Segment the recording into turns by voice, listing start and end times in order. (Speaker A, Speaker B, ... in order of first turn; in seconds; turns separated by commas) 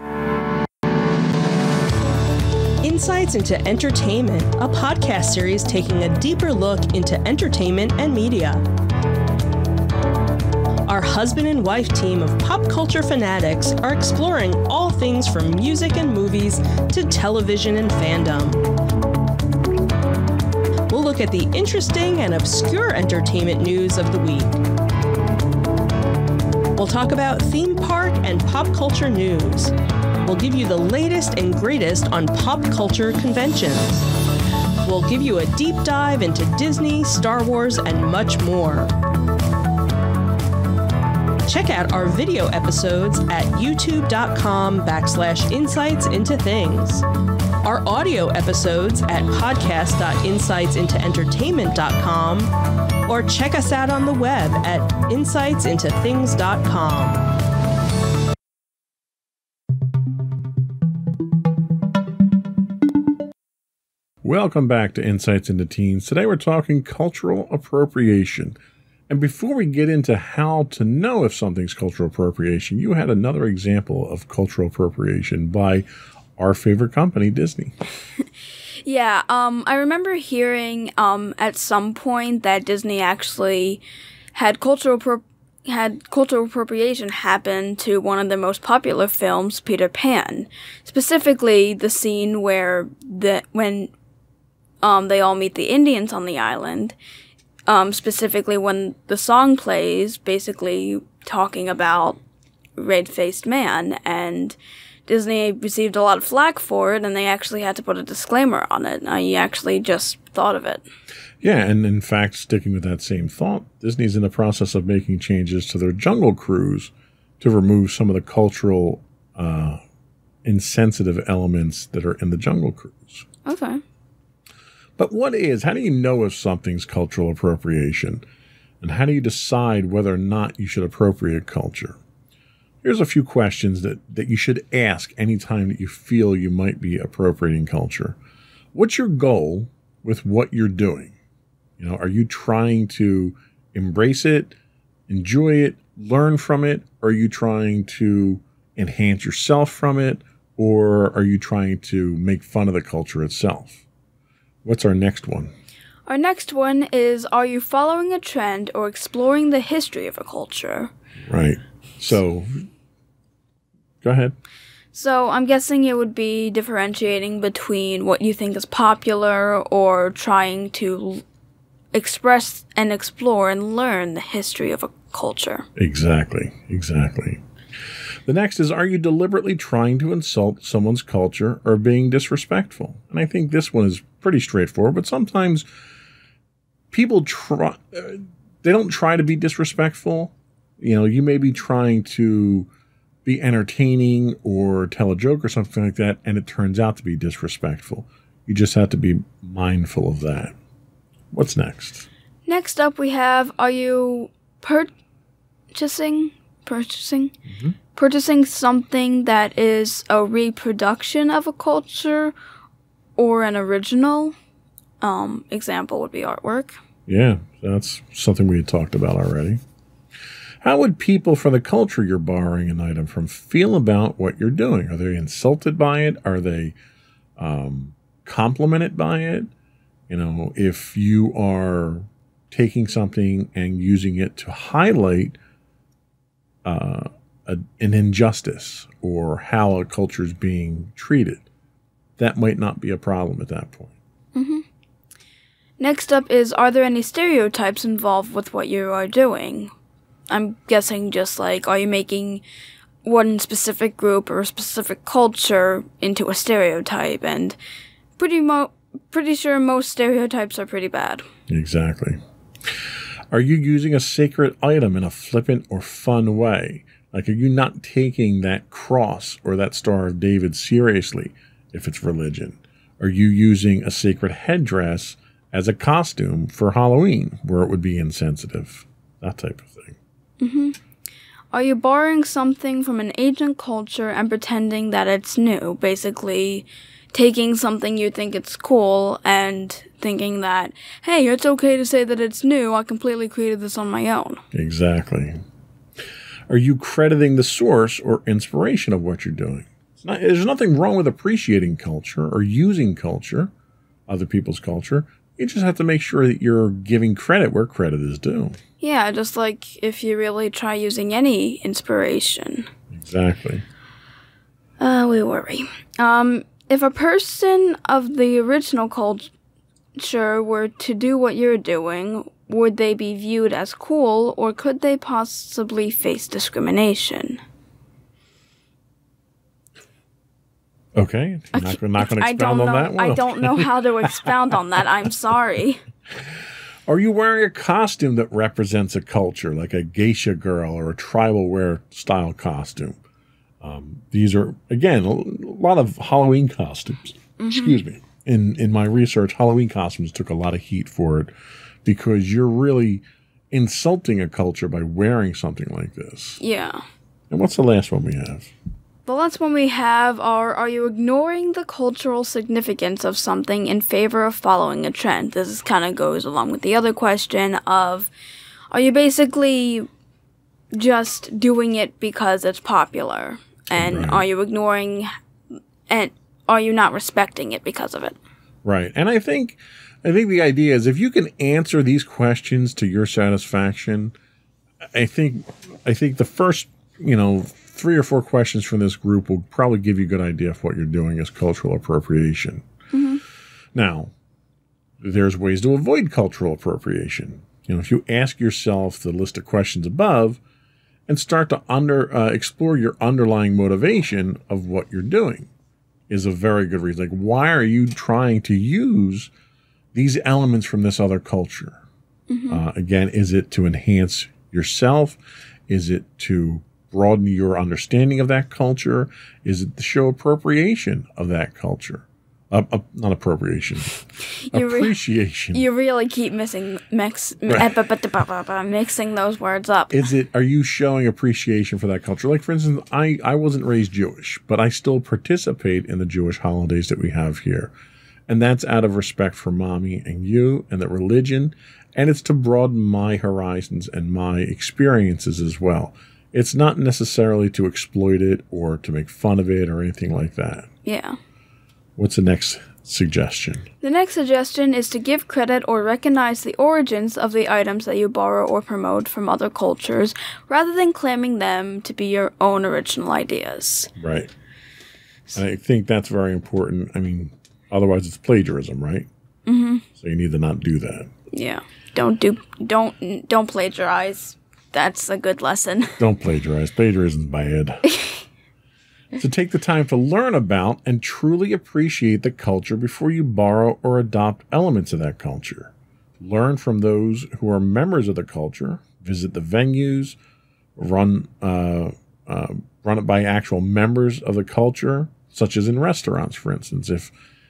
Speaker A: 2.8-8.6, Speaker A: 10.9-18.6, Speaker A: 20.9-24.6, Speaker A: 26.7-34.0, Speaker A: 34.8-38.9, Speaker A: 41.5-47.0, Speaker A: 47.6-52.5, Speaker A: 53.0-57.2, Speaker B: 64.2-68.5, Speaker B: 69.1-75.8, Speaker B: 76.4-77.7, Speaker C: 78.8-83.8, Speaker C: 84.3-93.9, Speaker C: 94.8-97.0, Speaker C: 97.7-102.2, Speaker C: 102.8-110.8, Speaker B: 111.4-119.8, Speaker B: 120.4-123.2, Speaker C: 123.5-123.8, Speaker B: 125.0-128.2, Speaker B: 128.8-132.0, Speaker B: 132.8-138.2, Speaker B: 138.7-141.1, Speaker B: 141.8-144.6, Speaker B: 145.1-153.8, Speaker B: 154.6-155.5, Speaker C: 156.1-160.9, Speaker B: 161.3-162.5, Speaker B: 164.0-164.3, Speaker C: 164.9-171.2, Speaker C: 171.9-175.7, Speaker B: 175.8-177.4, Speaker B: 178.2-185.7, Speaker B: 186.9-192.7, Speaker B: 193.2-200.5, Speaker B: 201.3-202.1, Speaker C: 202.5-204.9, Speaker C: 205.7-207.3, Speaker B: 207.4-207.7, Speaker C: 207.9-212.3, Speaker C: 213.2-214.3, Speaker C: 215.0-216.8, Speaker B: 217.1-219.6, Speaker B: 220.6-226.7, Speaker B: 227.4-229.5, Speaker B: 230.1-235.4, Speaker B: 236.6-241.4, Speaker B: 242.2-243.9, Speaker C: 244.3-244.6, Speaker C: 245.8-249.7, Speaker C: 250.3-252.4, Speaker C: 253.0-257.6, Speaker C: 258.2-261.3, Speaker B: 261.5-262.2, Speaker B: 263.3-280.0, Speaker C: 280.4-280.8, Speaker C: 281.5-294.4, Speaker B: 294.5-295.4, Speaker B: 296.5-303.5, Speaker B: 304.1-308.6, Speaker C: 308.8-312.7, Speaker B: 312.9-313.6, Speaker C: 314.8-319.3, Speaker C: 319.9-327.4, Speaker B: 330.9-334.3, Speaker C: 331.5-335.8, Speaker B: 336.9-343.0, Speaker B: 343.6-351.3, Speaker C: 347.4-347.8, Speaker B: 351.8-356.4, Speaker C: 356.4-356.8, Speaker B: 357.3-358.5, Speaker C: 359.1-368.1, Speaker C: 368.7-369.9, Speaker C: 370.7-375.1, Speaker B: 373.7-374.2, Speaker C: 375.9-378.2, Speaker B: 378.6-384.1, Speaker B: 384.9-392.6, Speaker C: 392.9-393.2, Speaker B: 393.7-394.1, Speaker B: 395.0-400.4, Speaker B: 401.1-405.5, Speaker B: 406.1-409.3, Speaker B: 409.9-411.8, Speaker C: 412.3-412.6, Speaker B: 412.5-425.6, Speaker C: 424.4-424.9, Speaker C: 425.5-430.0, Speaker B: 427.5-427.7, Speaker B: 429.9-437.7, Speaker B: 438.3-450.7, Speaker C: 450.8-451.2, Speaker B: 452.0-453.7, Speaker C: 453.8-463.9, Speaker B: 464.0-464.3, Speaker B: 465.3-469.1, Speaker C: 469.4-469.8, Speaker B: 469.9-471.1, Speaker C: 471.3-476.0, Speaker B: 476.0-477.8, Speaker C: 477.9-478.2, Speaker B: 479.1-490.2, Speaker B: 490.8-497.1